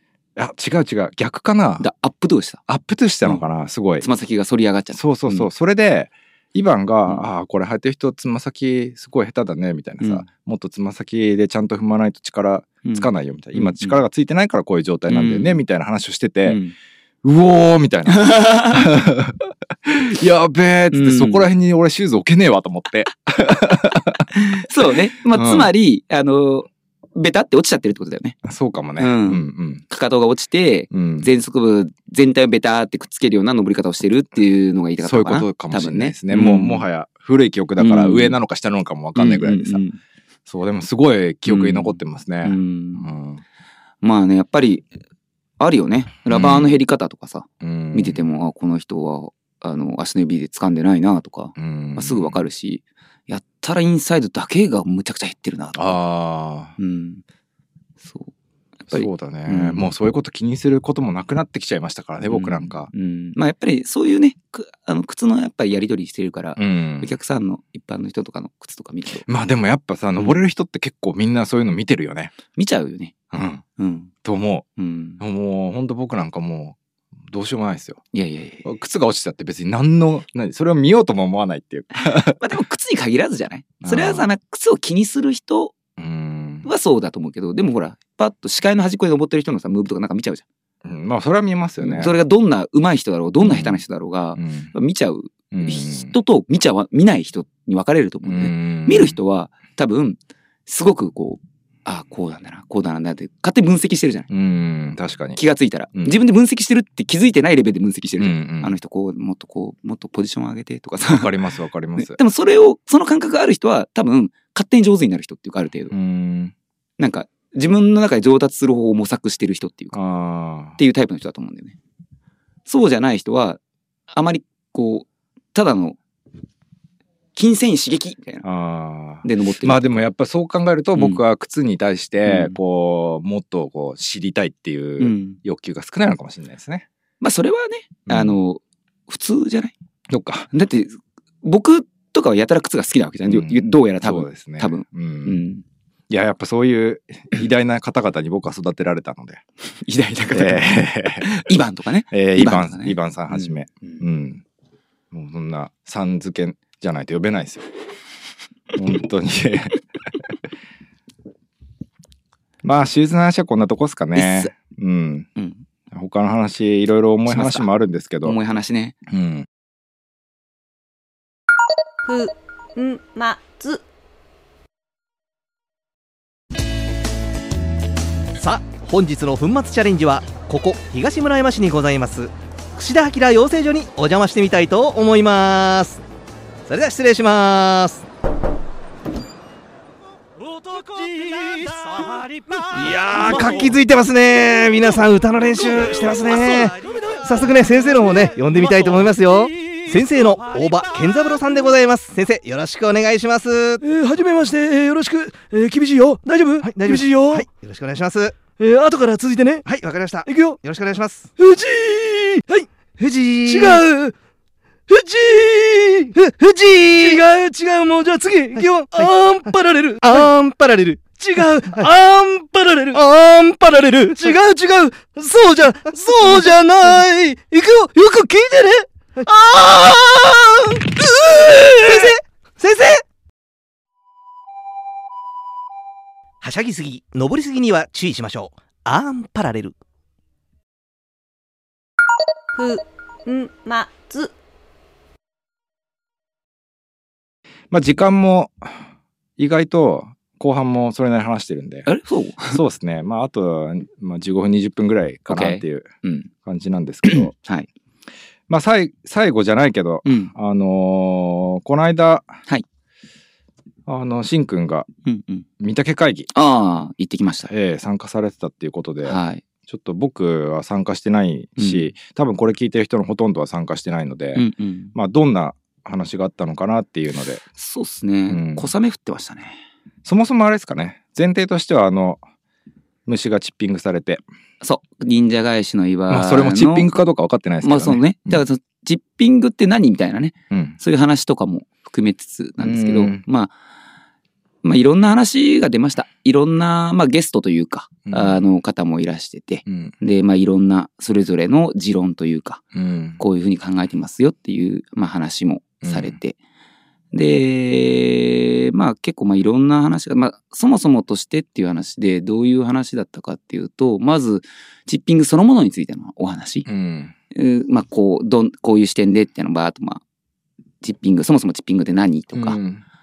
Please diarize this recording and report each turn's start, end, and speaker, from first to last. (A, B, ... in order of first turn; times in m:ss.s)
0:00.4-0:01.9 A
0:01.8-0:02.6 B
0:02.7-0:04.1 A
0:04.0-0:05.5 B
0:04.9-0:16.6 A
0:12.8-0:14.0 B
0:15.1-0:15.6 B
0:16.5-0:16.8 B
0:17.2-0:24.3 A
0:18.1-0:18.9 B
0:20.9-0:21.5 B
0:24.3-0:28.4 B
0:25.3-0:25.7 A
0:28.4-0:29.8 A
0:29.0-0:36.9 B
0:30.9-0:31.3 A
0:35.0-0:39.8 A
0:37.8-0:38.4 B
0:39.2-0:40.0 B
0:40.5-0:43.4 A
0:41.5-0:43.1 B
0:44.0-0:44.9 B
0:45.6-0:56.0 B
0:46.3-0:46.8 A
0:47.6-0:48.2 A
0:51.6-0:52.4 A
0:55.8-0:56.8 A
0:56.8-0:57.2 B
0:58.0-0:58.3 B
0:58.9-0:59.9 B
0:58.9-1:02.9 A
1:02.2-1:09.3 B
1:06.6-1:07.1 A
1:09.3-1:12.3 A
1:12.5-1:13.2 B
1:13.3-1:13.6 A
1:13.8-1:14.1 B
1:14.2-1:14.6 A
1:14.8-1:15.2 B
1:15.2-1:16.8 A
1:17.3-1:18.0 A
1:18.1-1:18.7 B
1:18.6-1:22.4 A
1:22.0-1:25.8 B
1:23.8-1:24.3 A
1:26.0-1:26.7 A
1:26.6-1:30.4 B
1:30.8-1:32.2 A
1:31.8-1:44.3 B
1:33.4-1:33.8 A
1:34.4-1:34.7 A
1:35.5-1:36.1 A
1:38.2-1:39.2 A
1:44.3-1:45.4 A
1:45.4-1:51.3 B
1:48.2-1:48.7 A
1:51.0-1:52.2 A
1:52.0-1:55.9 B
1:55.9-1:56.5 A
1:57.0-2:00.0 B
1:59.9-2:00.8 A
2:00.8-2:01.8 B
2:02.7-2:06.0 B
2:07.4-2:08.4 B
2:08.4-2:16.9 A
2:09.2-2:10.0 B
2:11.0-2:11.2 B
2:12.2-2:12.6 B
2:15.0-2:15.4 B
2:17.2-2:19.7 B
2:18.1-2:18.4 A
2:20.1-2:20.5 A
2:20.5-2:25.6 B
2:23.3-2:25.4 A
2:26.1-2:29.4 A
2:29.8-2:34.0 B
2:30.3-2:31.5 A
2:32.1-2:34.4 A
2:35.1-2:37.7 A
2:38.7-2:39.8 A
2:42.6-2:45.3 A
2:44.2-2:44.5 B
2:45.4-2:45.6 B
2:45.9-2:48.4 A
2:47.3-2:47.7 B
2:48.2-2:49.0 B
2:49.1-2:49.5 A
2:52.1-2:53.8 C
2:58.4-3:06.0 D
3:06.7-3:08.1 D
3:10.7-3:13.8 E
3:12.7-3:23.8 D
3:15.4-3:19.2 E
3:23.8-3:27.5 E
3:26.6-3:28.4 D
3:28.6-3:29.7 E
3:29.7-3:31.3 D
3:30.2-3:30.6 E
3:31.4-3:32.7 E
3:33.0-3:33.8 D
3:33.5-3:34.1 E
3:34.9-3:40.3 E
3:36.7-3:37.2 D
3:38.6-3:39.1 D
3:40.0-3:41.9 D
3:41.2-3:50.4 E
3:42.9-3:44.3 D
3:49.5-3:53.0 D
3:51.0-3:52.1 E
3:56.4-3:59.8 D
4:02.6-4:04.3 C
4:07.7-4:11.9 A
4:11.9-4:12.6 B
4:12.5-4:15.9 A
4:15.3-4:16.3 B
4:16.4-4:17.3 A
4:17.0-4:17.7 B
4:18.5-4:22.4 A
4:20.0-4:20.3 B
4:23.9-4:24.9 A
4:25.1-4:25.5 B
4:25.6-4:26.3 A
4:26.3-4:27.5 B
4:27.5-4:37.4 A
4:29.0-4:29.4 B
4:31.6-4:31.9 B
4:34.4-4:34.9 B
4:37.6-4:39.6 B
4:38.3-4:38.7 A
4:40.0-4:42.2 A
4:43.1-4:44.2 A
4:44.6-4:46.9 B
4:46.1-4:48.4 A
4:47.6-4:53.5 B
4:50.5-4:50.8 A
4:52.6-4:53.2 A
4:54.6-5:02.6 B
4:58.1-4:58.4 A
4:59.7-4:59.9 A
5:02.7-5:03.2 A
5:03.2-5:06.4 B
5:05.8-5:06.2 A
5:07.1-5:16.7 B
5:16.6-5:17.1 A
5:17.3-5:20.0 B
5:20.8-5:22.6 B
5:22.4-5:22.8 A